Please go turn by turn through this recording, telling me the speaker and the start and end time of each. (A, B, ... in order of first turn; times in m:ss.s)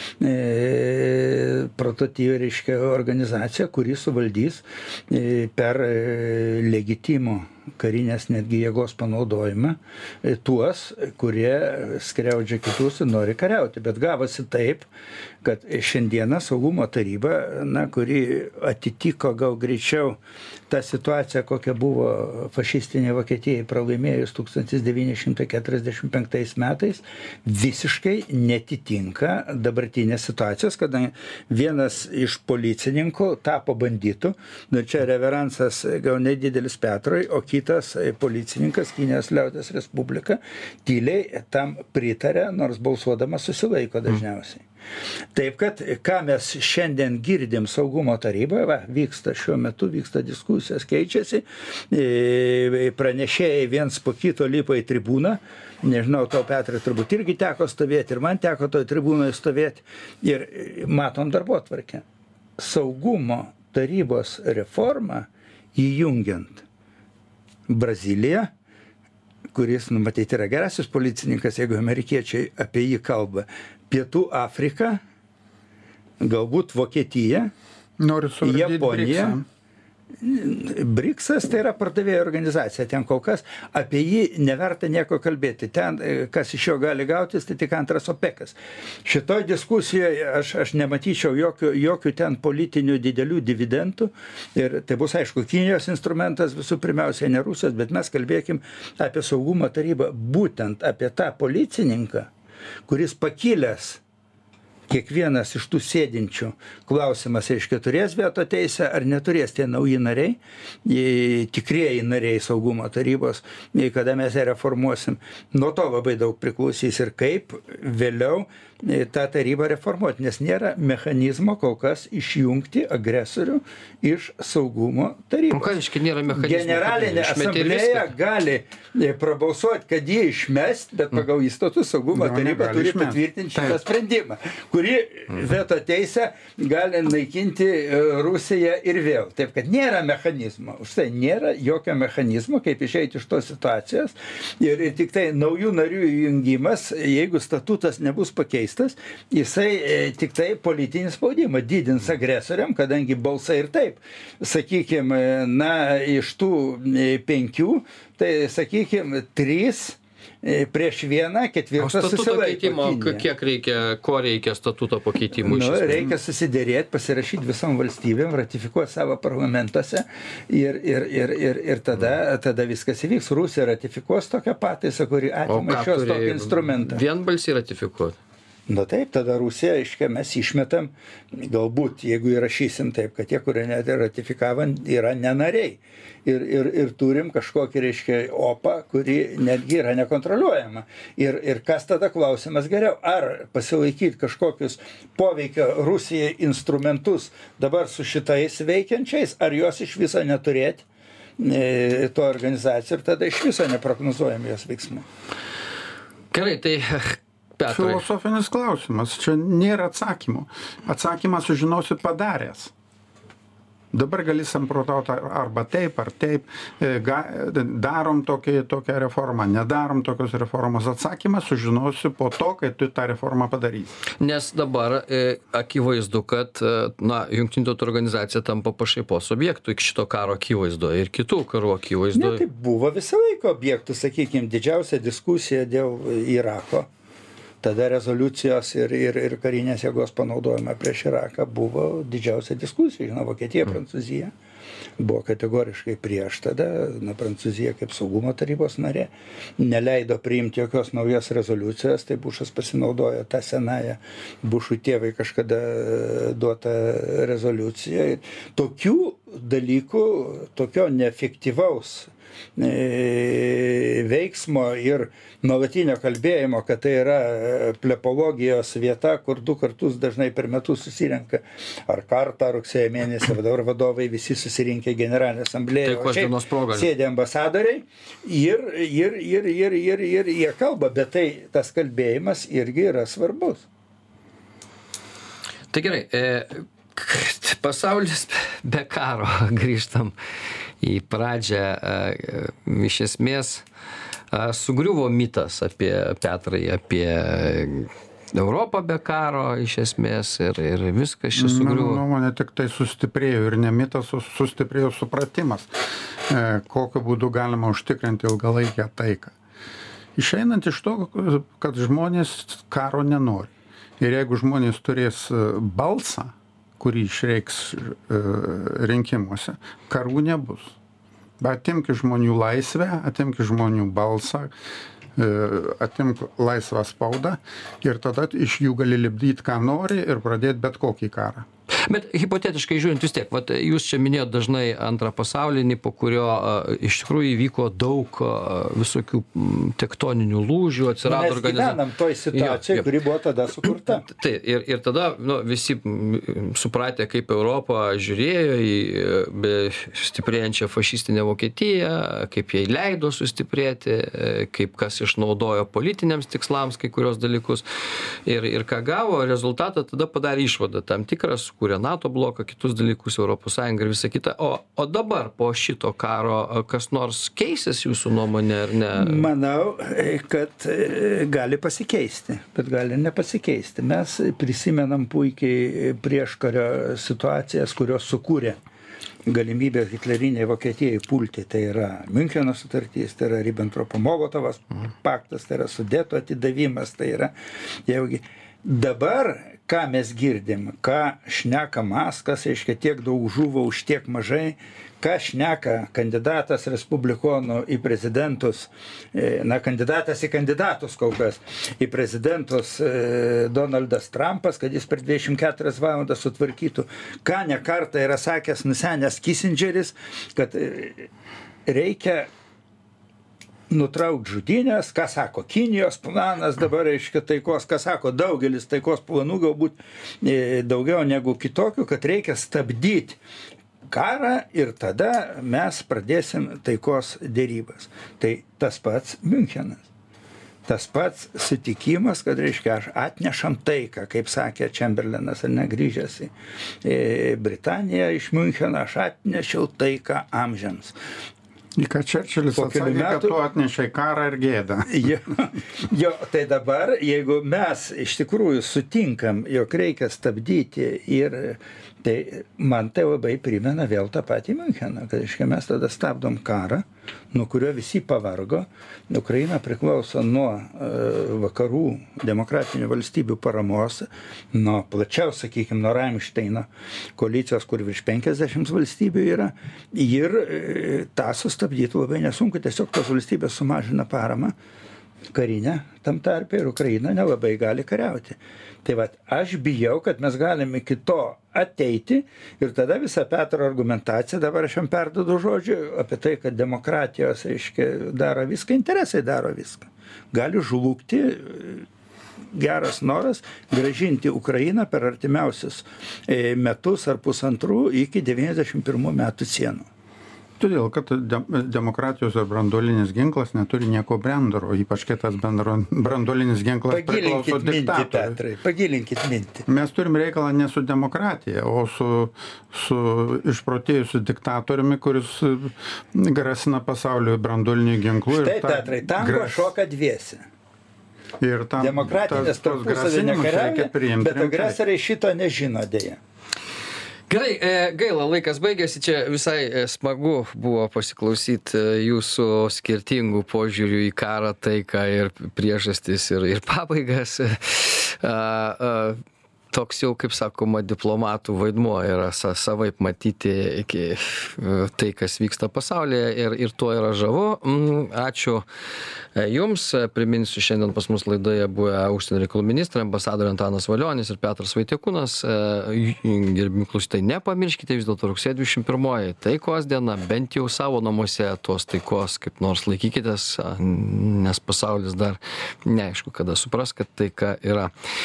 0:00.2-0:14.9 A
0:15.4-0:20.2 A
0:20.7-0:44.6 A
0:45.3-1:02.0 A
1:02.6-1:06.6 A
1:07.7-1:08.5 A
1:09.5-1:15.0 A
1:16.2-1:17.5 A
1:18.0-1:19.4 B
1:18.4-1:19.4 A
1:20.2-1:42.3 A
1:42.9-1:44.0 A
1:44.9-2:05.8 A
2:05.5-2:08.1 C
2:06.3-2:43.2 A
2:12.1-2:13.8 B
2:41.8-2:46.1 C
2:45.3-2:57.0 A
2:55.5-2:58.2 C
2:58.7-3:20.8 A
3:21.4-3:25.0 A
3:26.3-3:28.0 C
3:27.7-3:32.7 B
3:33.9-3:44.0 B
3:44.2-3:52.4 C
3:52.1-3:56.9 A
3:57.6-4:04.3 A
4:05.0-4:43.6 A
4:35.8-4:36.9 C
4:45.7-4:50.1 C
4:50.8-4:53.6 C
4:54.3-5:02.0 C
5:01.4-5:05.7 B
5:06.3-5:09.3 B
5:10.2-5:20.7 B
5:21.4-5:24.5 B
5:25.2-5:31.4 B
5:31.9-5:41.8 C
5:41.0-5:44.0 A
5:42.3-5:42.8 C
5:44.0-5:57.6 C
5:58.2-6:09.3 C
6:09.0-6:18.6 A
6:19.2-6:27.3 A
6:27.9-6:51.1 A
6:51.6-6:52.3 A
6:53.7-7:03.2 A
7:03.9-7:09.8 A
7:10.7-7:16.3 A
7:16.8-7:20.9 A
7:21.8-7:25.1 B
7:22.6-7:23.4 A
7:24.9-7:54.5 A
7:55.3-8:11.8 A
8:12.5-8:19.9 A
8:20.6-8:28.4 B
8:26.9-8:29.6 A
8:29.7-8:39.7 B
8:38.3-8:40.4 A
8:41.4-8:44.8 B
8:41.8-8:46.2 A
8:47.3-8:59.2 C
8:59.7-9:08.6 C
9:09.4-9:27.9 C